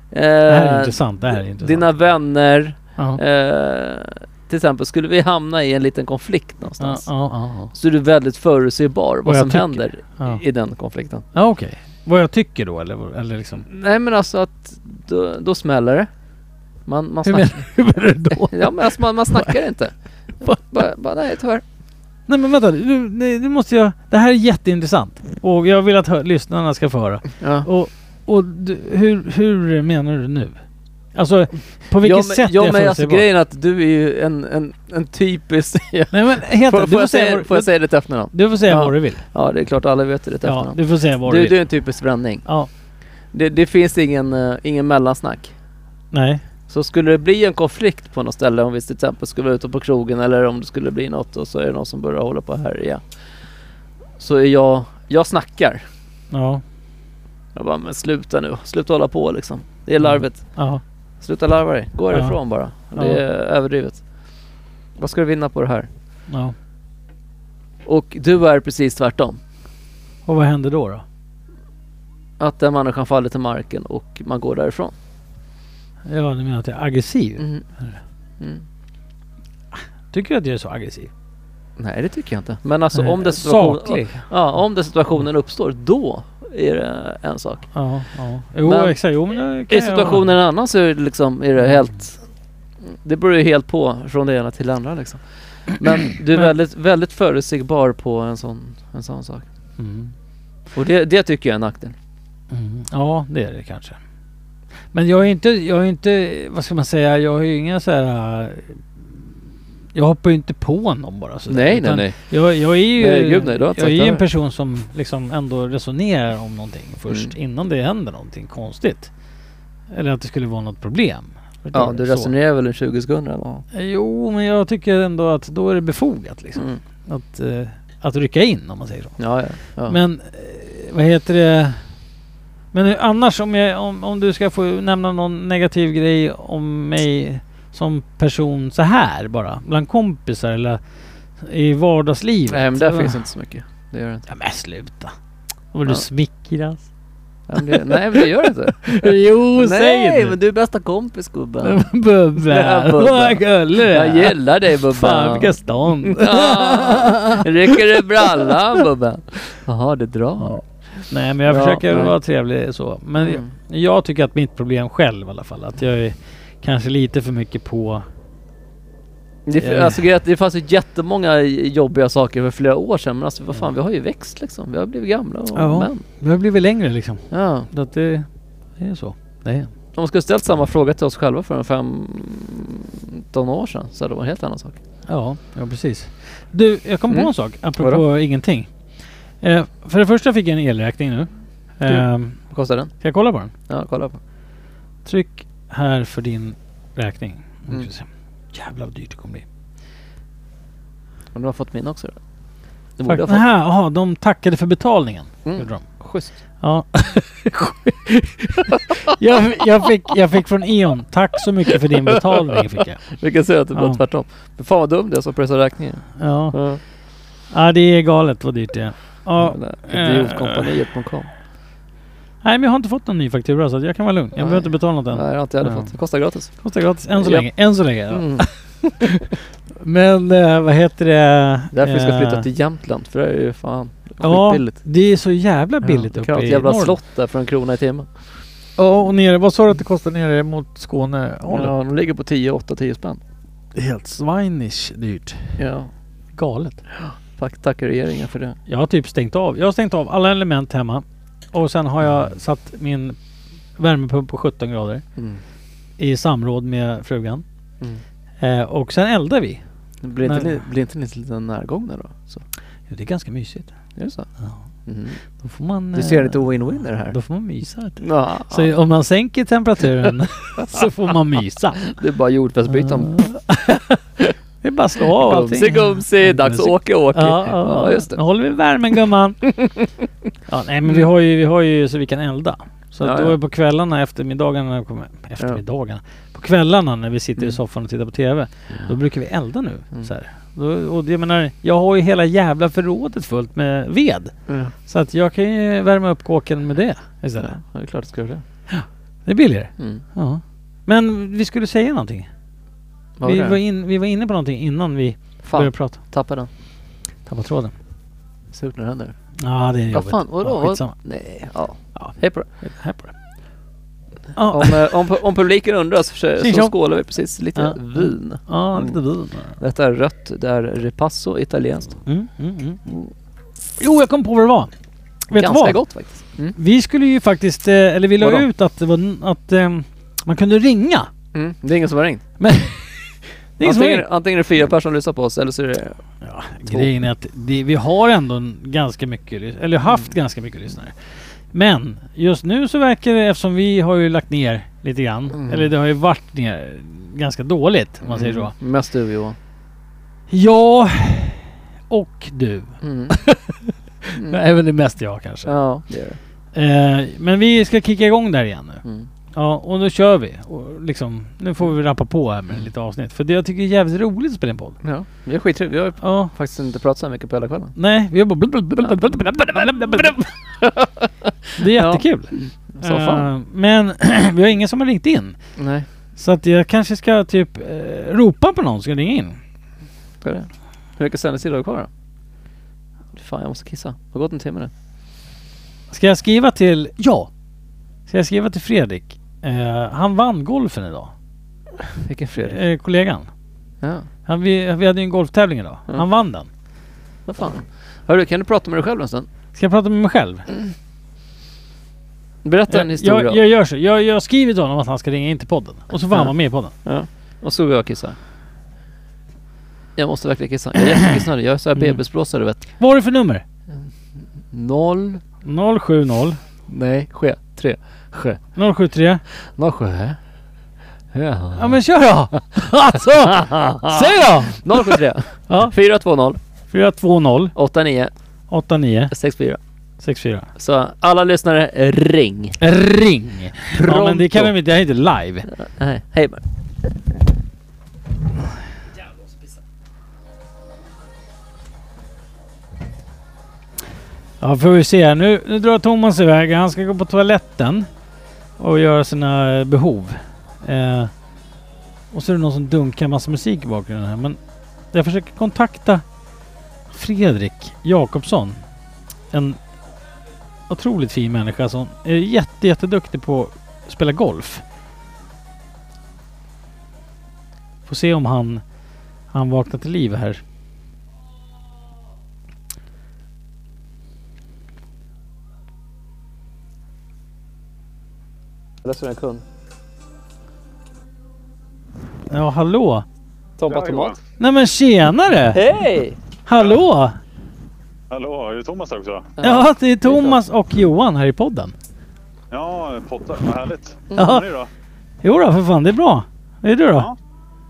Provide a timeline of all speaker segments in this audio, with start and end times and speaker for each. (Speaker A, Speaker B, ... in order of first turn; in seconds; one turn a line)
Speaker A: 0.1-1.1
Speaker B: 0.4-1.8
Speaker A: 1.6-7.1
Speaker B: 6.8-7.7
Speaker A: 7.7-11.2
Speaker B: 9.2-10.4
Speaker B: 11.3-13.7
Speaker A: 13.6-16.1
Speaker A: 16.9-17.8
Speaker B: 17.2-19.5
Speaker A: 18.4-21.6
Speaker B: 22.3-30.6
Speaker A: 27.4-27.7
Speaker B: 31.1-33.2
Speaker A: 32.0-42.5
Speaker B: 36.1-37.7
Speaker B: 38.3-39.2
Speaker B: 40.4-41.6
Speaker A: 43.3-45.5
Speaker B: 46.1-46.4
Speaker A: 46.7-53.0
Speaker A: 54.2-55.8
Speaker B: 56.3-56.6
Speaker A: 57.5-60.6
Speaker B: 60.0-60.8
Speaker A: 61.2-64.0
Speaker B: 62.1-62.4
Speaker B: 62.9-63.2
Speaker A: 65.0-65.9
Speaker B: 66.3-66.5
Speaker A: 67.8-69.4
Speaker B: 70.2-71.0
Speaker A: 72.4-74.9
Speaker B: 76.1-78.0
Speaker A: 77.4-77.6
Speaker B: 80.1-81.1
Speaker A: 81.8-87.7
Speaker B: 82.9-84.2
Speaker B: 87.7-90.2
Speaker A: 88.6-89.0
Speaker A: 89.7-92.2
Speaker A: 92.8-99.4
Speaker B: 99.8-100.1
Speaker A: 100.7-101.9
Speaker B: 102.5-104.0
Speaker B: 104.9-108.8
Speaker B: 109.9-119.1
Speaker A: 111.5-112.2
Speaker A: 113.0-114.2
Speaker A: 117.1-117.3
Speaker B: 119.9-122.3
Speaker A: 121.7-123.6
Speaker B: 123.7-129.2
Speaker A: 126.5-126.8
Speaker A: 129.2-130.0
Speaker B: 129.8-131.8
Speaker B: 132.7-140.8
Speaker B: 141.4-143.2
Speaker A: 142.5-144.3
Speaker B: 144.3-145.1
Speaker B: 145.7-146.9
Speaker A: 147.5-151.8
Speaker B: 147.7-148.2
Speaker B: 148.8-150.3
Speaker B: 151.6-158.5
Speaker A: 152.4-162.1
Speaker B: 161.1-168.0
Speaker A: 163.2-163.5
Speaker A: 169.4-176.0
Speaker B: 169.6-170.0
Speaker B: 175.5-178.2
Speaker A: 177.3-177.7
Speaker B: 178.8-179.7
Speaker A: 179.9-184.8
Speaker B: 185.1-188.7
Speaker A: 187.1-188.0
Speaker B: 189.4-192.4
Speaker A: 191.9-192.9
Speaker B: 193.0-193.5
Speaker A: 193.7-194.2
Speaker B: 195.0-199.4
Speaker A: 201.3-202.2
Speaker A: 203.0-203.4
Speaker B: 203.0-205.8
Speaker A: 205.4-206.3
Speaker B: 206.6-213.0
Speaker A: 211.7-212.2
Speaker A: 213.1-216.8
Speaker B: 213.7-214.0
Speaker B: 216.2-216.6
Speaker B: 217.5-220.7
Speaker A: 219.4-221.3
Speaker B: 222.4-225.9
Speaker A: 224.4-226.5
Speaker B: 226.6-228.5
Speaker A: 227.2-227.5
Speaker A: 228.1-229.2
Speaker B: 229.0-232.5
Speaker A: 231.7-234.8
Speaker B: 234.2-236.9
Speaker A: 235.8-238.1
Speaker B: 238.8-241.7
Speaker A: 241.5-243.2
Speaker B: 243.7-245.6
Speaker A: 245.6-245.9
Speaker B: 246.3-246.8
Speaker A: 246.9-248.6
Speaker B: 248.7-253.2
Speaker B: 253.8-255.0
Speaker B: 256.0-257.4
Speaker B: 258.4-259.6
Speaker A: 260.0-262.4
Speaker B: 260.2-260.6
Speaker B: 262.9-263.7
Speaker A: 264.0-264.3
Speaker A: 264.9-265.2
Speaker B: 265.4-272.0
Speaker A: 265.9-267.1
Speaker A: 268.0-268.7
Speaker A: 270.6-270.9
Speaker A: 271.9-273.2
Speaker B: 272.7-274.0
Speaker B: 274.6-279.5
Speaker A: 275.0-278.2
Speaker B: 280.5-294.3
Speaker A: 283.0-283.3
Speaker A: 294.5-294.7
Speaker B: 294.8-297.6
Speaker A: 297.4-298.4
Speaker B: 298.7-302.3
Speaker A: 299.8-300.0
Speaker A: 303.2-303.6
Speaker B: 303.2-306.0
Speaker A: 305.4-306.5
Speaker B: 307.2-307.7
Speaker A: 308.5-309.1
Speaker B: 309.4-310.9
Speaker A: 309.9-312.5
Speaker B: 311.9-313.1
Speaker B: 314.3-314.8
Speaker A: 314.5-319.0
Speaker B: 316.4-316.7
Speaker B: 317.5-319.5
Speaker A: 319.6-322.0
Speaker B: 322.1-323.0
Speaker B: 323.8-324.7
Speaker B: 325.3-325.8
Speaker A: 325.3-326.6
Speaker B: 326.5-331.1
Speaker A: 328.2-328.5
Speaker A: 331.3-332.2
Speaker B: 332.4-334.1
Speaker A: 333.6-336.0
Speaker B: 336.2-340.9
Speaker B: 341.5-348.5
Speaker A: 345.3-345.7
Speaker A: 348.0-349.4
Speaker B: 350.3-355.5
Speaker A: 352.8-353.1
Speaker A: 355.4-356.2
Speaker B: 356.5-358.8
Speaker B: 359.3-364.8
Speaker A: 364.8-367.7
Speaker B: 366.0-366.3
Speaker B: 367.8-370.3
Speaker A: 369.4-373.3
Speaker B: 371.6-375.4
Speaker A: 375.6-375.9
Speaker B: 376.1-379.4
Speaker A: 380.2-381.9
Speaker A: 383.1-384.7
Speaker B: 385.9-387.3
Speaker B: 388.1-391.1
Speaker A: 391.8-392.6
Speaker B: 392.4-393.3
Speaker B: 394.2-396.5
Speaker A: 397.2-399.3
Speaker B: 399.5-400.4
Speaker A: 402.4-403.4
Speaker B: 402.7-406.7
Speaker A: 406.8-408.1
Speaker A: 409.9-412.6
Speaker B: 411.8-412.0
Speaker B: 412.8-413.4
Speaker A: 414.5-415.2
Speaker B: 415.4-416.4
Speaker A: 416.7-418.4
Speaker B: 418.5-419.2
Speaker A: 419.3-420.2
Speaker A: 421.1-421.8
Speaker B: 421.6-425.7
Speaker A: 422.9-426.4
Speaker B: 426.7-427.5
Speaker A: 427.5-428.1
Speaker B: 428.5-429.1
Speaker A: 429.1-429.6
Speaker B: 430.0-430.5
Speaker A: 430.6-432.6
Speaker B: 432.6-435.5
Speaker A: 433.7-434.5
Speaker A: 435.5-436.4
Speaker B: 444.4-447.9
Speaker B: 448.6-451.1
Speaker B: 452.1-454.4
Speaker B: 454.9-456.0
Speaker B: 456.9-458.6
Speaker B: 459.3-459.6
Speaker B: 460.7-464.6
Speaker B: 467.9-468.6
Speaker B: 469.3-470.4
Speaker A: 478.8-479.4
Speaker B: 482.3-483.0
Speaker A: 483.6-484.1
Speaker C: 483.7-484.2
Speaker B: 484.4-485.6
Speaker A: 485.5-486.2
Speaker B: 486.4-487.2
Speaker C: 488.1-489.3
Speaker A: 489.4-490.4
Speaker B: 489.4-491.7
Speaker C: 492.5-494.7
Speaker A: 494.1-494.4
Speaker B: 494.1-494.4
Speaker B: 495.2-497.1